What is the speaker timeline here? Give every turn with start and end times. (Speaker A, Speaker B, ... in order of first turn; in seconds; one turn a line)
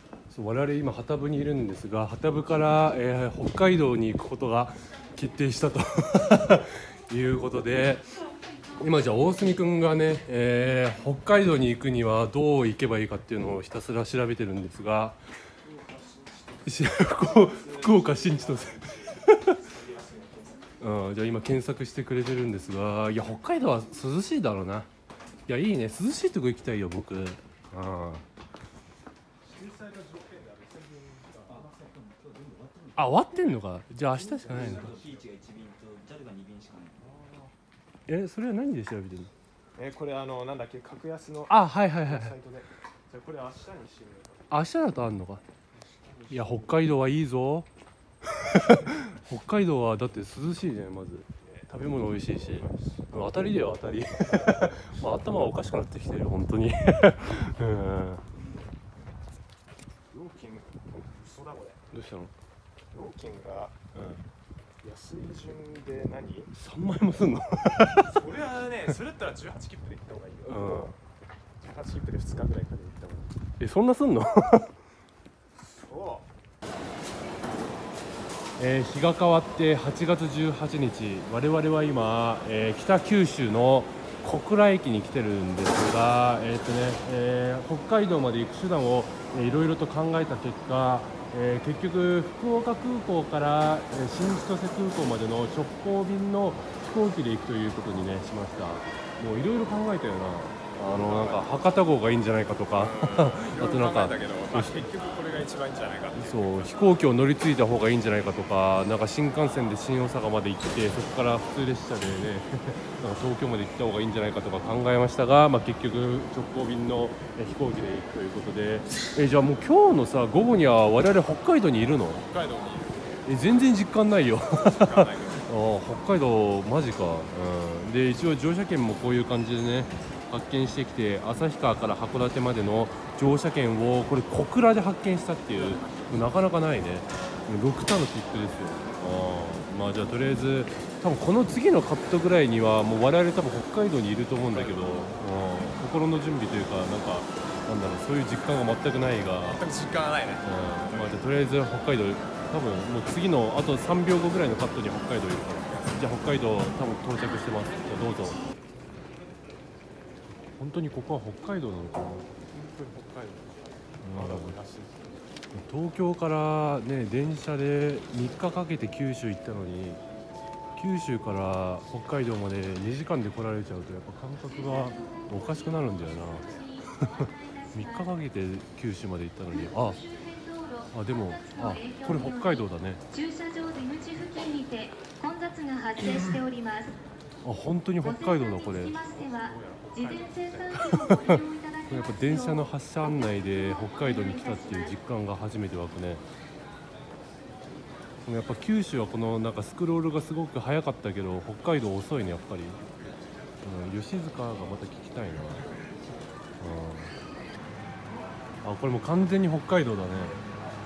Speaker A: 0.3-8.0
Speaker A: 8.8-15.2
Speaker A: 16.7-19.6
Speaker B: 17.4-20.6
Speaker A: 20.8-24.9
Speaker A: 25.5-28.2
Speaker B: 29.4-31.9
Speaker C: 31.6-33.3
Speaker A: 33.0-34.9
Speaker B: 34.2-35.3
Speaker C: 34.5-37.0
Speaker B: 37.0-37.5
Speaker A: 38.1-39.3
Speaker B: 39.8-44.5
Speaker A: 41.5-42.4
Speaker A: 44.5-45.4
Speaker B: 46.1-46.6
Speaker A: 46.3-47.7
Speaker A: 48.3-58.2
Speaker B: 51.4-53.1
Speaker B: 60.1-61.8
Speaker A: 61.9-62.3
Speaker B: 62.9-63.8
Speaker A: 64.0-64.2
Speaker B: 64.8-66.5
Speaker A: 66.6-68.2
Speaker B: 68.1-70.9
Speaker A: 70.4-71.0
Speaker B: 71.6-73.3
Speaker A: 73.6-74.7
Speaker B: 75.8-76.2
Speaker A: 78.6-104.9
Speaker B: 100.9-101.5
Speaker B: 102.7-106.8
Speaker A: 106.2-122.2
Speaker B: 122.3-123.0
Speaker A: 123.3-149.7
Speaker B: 124.5-125.5
Speaker B: 144.5-145.2
Speaker B: 149.4-151.1
Speaker A: 150.4-158.4
Speaker A: 160.6-162.3
Speaker B: 162.5-165.2
Speaker A: 164.0-164.6
Speaker A: 165.5-170.0
Speaker A: 170.8-177.2
Speaker D: 174.4-178.1
Speaker A: 177.8-180.0
Speaker D: 179.5-187.0
Speaker A: 180.9-183.0
Speaker A: 187.4-189.0
Speaker D: 188.0-194.9
Speaker B: 189.0-190.8
Speaker A: 190.8-196.2
Speaker A: 198.2-202.8
Speaker A: 203.6-205.7
Speaker A: 206.6-207.1
Speaker A: 208.6-210.4